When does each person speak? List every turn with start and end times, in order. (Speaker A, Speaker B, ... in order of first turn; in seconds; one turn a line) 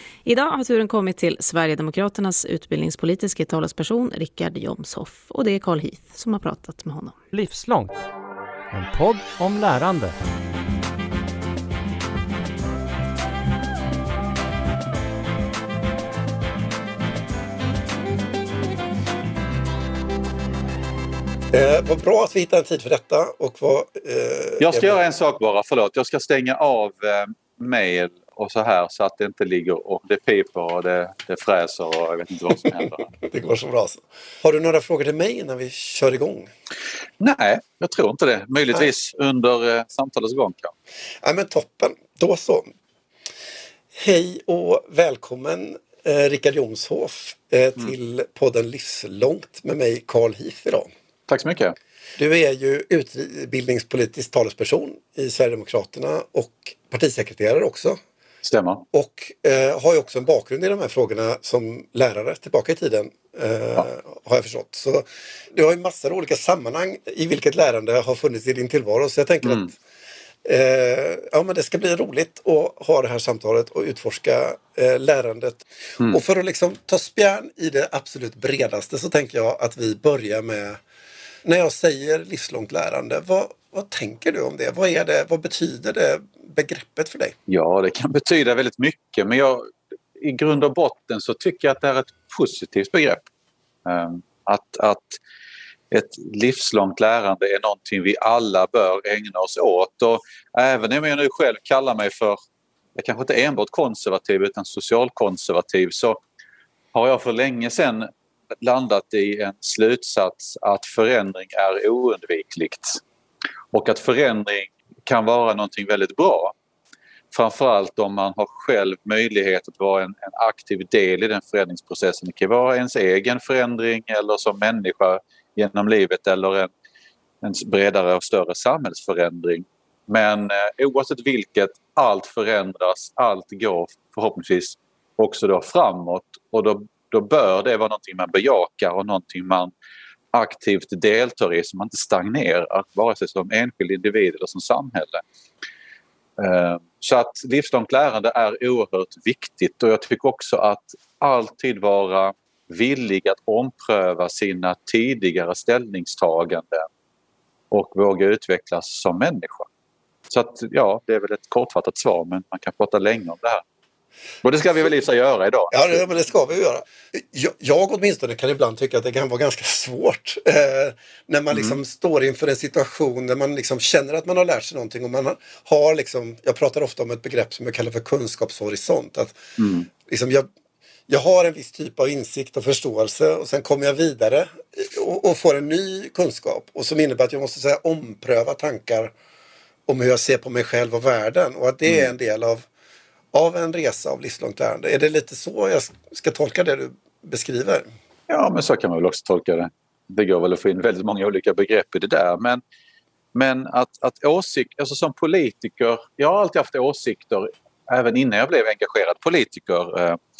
Speaker A: 0.2-7.2
Speaker B: 7.3-8.0
Speaker B: 8.7-10.1
Speaker C: 21.5-25.0
Speaker D: 24.6-33.0
Speaker C: 33.2-36.5
Speaker D: 37.2-40.7
Speaker C: 41.2-42.7
Speaker C: 43.9-50.9
Speaker D: 51.3-51.7
Speaker C: 52.2-58.0
Speaker D: 58.4-58.8
Speaker C: 58.9-69.7
Speaker D: 69.4-69.7
Speaker C: 70.4-80.8
Speaker C: 81.4-87.3
Speaker D: 87.5-93.2
Speaker D: 93.8-95.2
Speaker D: 95.9-102.4
Speaker D: 103.0-106.2
Speaker D: 106.9-108.1
Speaker D: 108.6-113.0
Speaker D: 113.7-116.5
Speaker D: 117.3-126.7
Speaker D: 127.4-139.7
Speaker D: 140.3-145.2
Speaker D: 146.4-156.9
Speaker D: 157.7-159.7
Speaker D: 160.3-163.6
Speaker D: 164.4-166.0
Speaker C: 165.7-180.5
Speaker D: 171.5-171.8
Speaker D: 179.6-179.9
Speaker C: 181.1-189.1
Speaker C: 189.9-192.7
Speaker C: 193.3-197.9
Speaker D: 198.3-202.6
Speaker D: 203.3-210.2